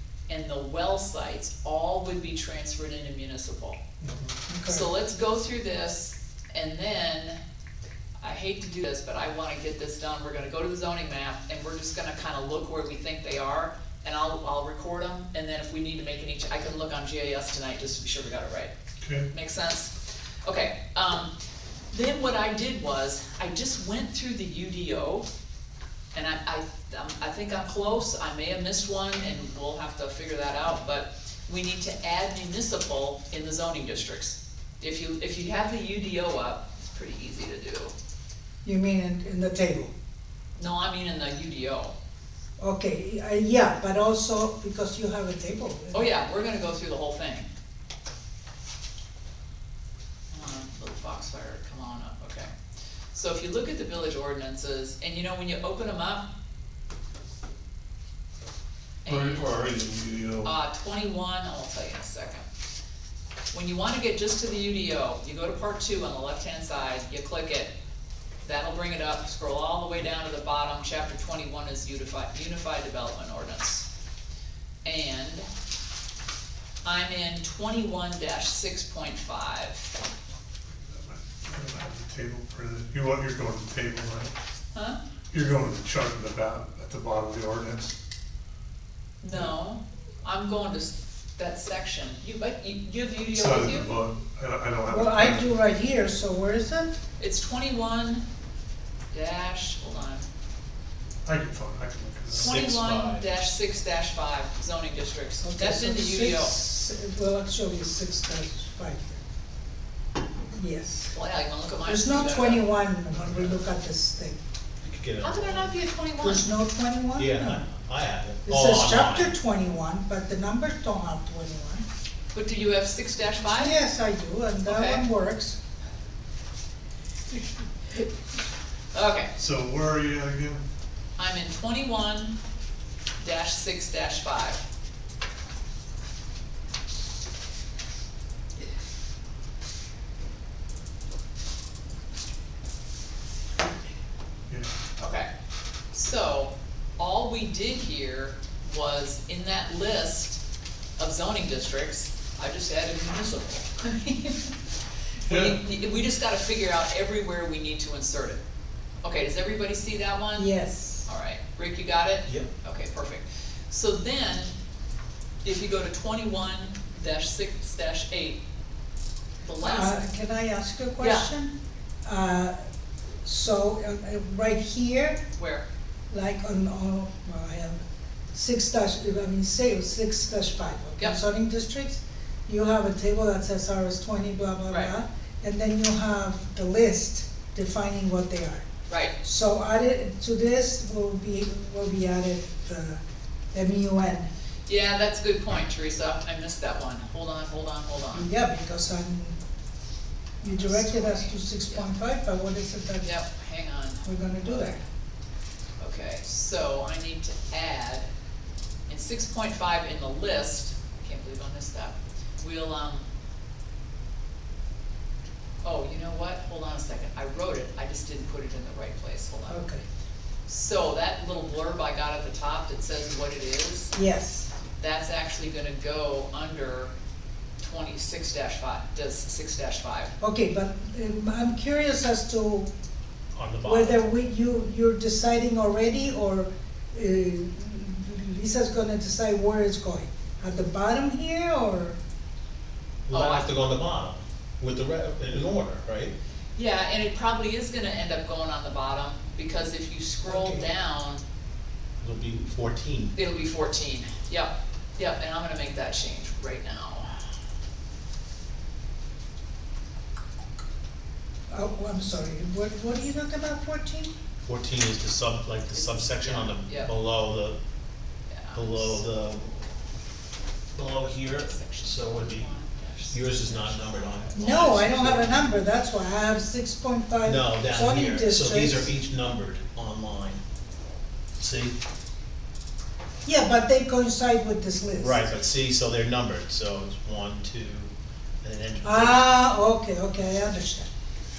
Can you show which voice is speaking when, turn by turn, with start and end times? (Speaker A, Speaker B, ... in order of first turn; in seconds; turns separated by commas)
Speaker A: 0.3-3.8, Speaker B: 4.5-4.8, Speaker A: 4.7-7.4, Speaker A: 8.2-18.7, Speaker A: 19.3-21.3, Speaker A: 21.9-25.3, Speaker A: 26.1-37.9, Speaker B: 38.6-39.9, Speaker A: 40.5-41.9, Speaker B: 42.6-46.1, Speaker A: 45.9-47.5, Speaker A: 50.3-52.5, Speaker A: 53.1-56.3, Speaker A: 59.0-59.6, Speaker C: 59.3-60.3, Speaker D: 59.9-60.4, Speaker A: 60.4-62.5, Speaker A: 63.5-67.7, Speaker A: 68.4-73.9, Speaker A: 74.8-75.5, Speaker A: 76.8-79.9, Speaker D: 80.7-84.3, Speaker A: 84.7-85.0, Speaker D: 85.3-87.9, Speaker A: 89.2-93.9, Speaker D: 93.3-95.5, Speaker B: 94.9-96.9, Speaker A: 97.2-98.2, Speaker A: 99.1-100.3, Speaker D: 101.2-102.5, Speaker C: 102.3-103.3, Speaker A: 102.4-106.5, Speaker B: 105.4-109.2, Speaker B: 110.5-111.1, Speaker A: 111.1-112.6, Speaker B: 111.8-114.4, Speaker C: 114.8-115.7, Speaker A: 115.2-116.5, Speaker B: 116.2-117.6, Speaker C: 117.1-119.3, Speaker B: 118.4-121.8, Speaker A: 122.3-123.8, Speaker B: 123.5-125.6, Speaker A: 124.7-125.0, Speaker A: 128.9-129.3, Speaker D: 129.4-130.6, Speaker A: 131.2-132.4, Speaker A: 133.2-134.6, Speaker A: 145.0-145.3, Speaker A: 145.9-150.4, Speaker A: 151.0-154.5, Speaker A: 155.2-158.4, Speaker A: 159.0-160.5, Speaker B: 160.3-161.1, Speaker A: 161.0-164.5, Speaker A: 165.4-168.4, Speaker A: 169.4-170.1, Speaker B: 169.6-171.5, Speaker A: 171.0-171.3, Speaker B: 172.0-172.5, Speaker B: 173.2-175.2, Speaker A: 175.3-175.6, Speaker B: 176.1-177.8, Speaker B: 178.3-188.7, Speaker A: 188.9-189.1, Speaker B: 189.2-193.0, Speaker B: 193.5-194.3, Speaker A: 194.7-198.3, Speaker B: 198.1-199.4, Speaker B: 200.4-203.1, Speaker A: 200.5-201.8, Speaker A: 203.0-204.8, Speaker B: 204.0-204.8, Speaker A: 205.8-208.1, Speaker A: 208.9-213.1, Speaker A: 215.6-219.7, Speaker B: 219.5-219.8, Speaker A: 220.5-223.9, Speaker B: 223.9-224.5, Speaker A: 224.8-226.9, Speaker A: 227.6-230.1, Speaker B: 230.2-232.7, Speaker C: 233.3-234.0, Speaker B: 233.6-242.0, Speaker C: 243.1-246.1, Speaker A: 243.1-243.5, Speaker A: 246.6-251.2, Speaker B: 250.2-250.7, Speaker C: 252.0-253.1, Speaker A: 253.1-257.2, Speaker B: 261.5-264.1, Speaker C: 264.4-267.6, Speaker A: 265.7-266.9, Speaker A: 268.3-268.9, Speaker C: 268.5-269.4, Speaker C: 270.7-272.5, Speaker A: 271.2-274.8, Speaker C: 273.1-275.5, Speaker B: 274.3-278.9, Speaker C: 277.2-280.4, Speaker C: 281.4-281.8, Speaker B: 283.2-285.2, Speaker C: 285.0-287.9, Speaker C: 288.4-289.3, Speaker B: 288.8-290.9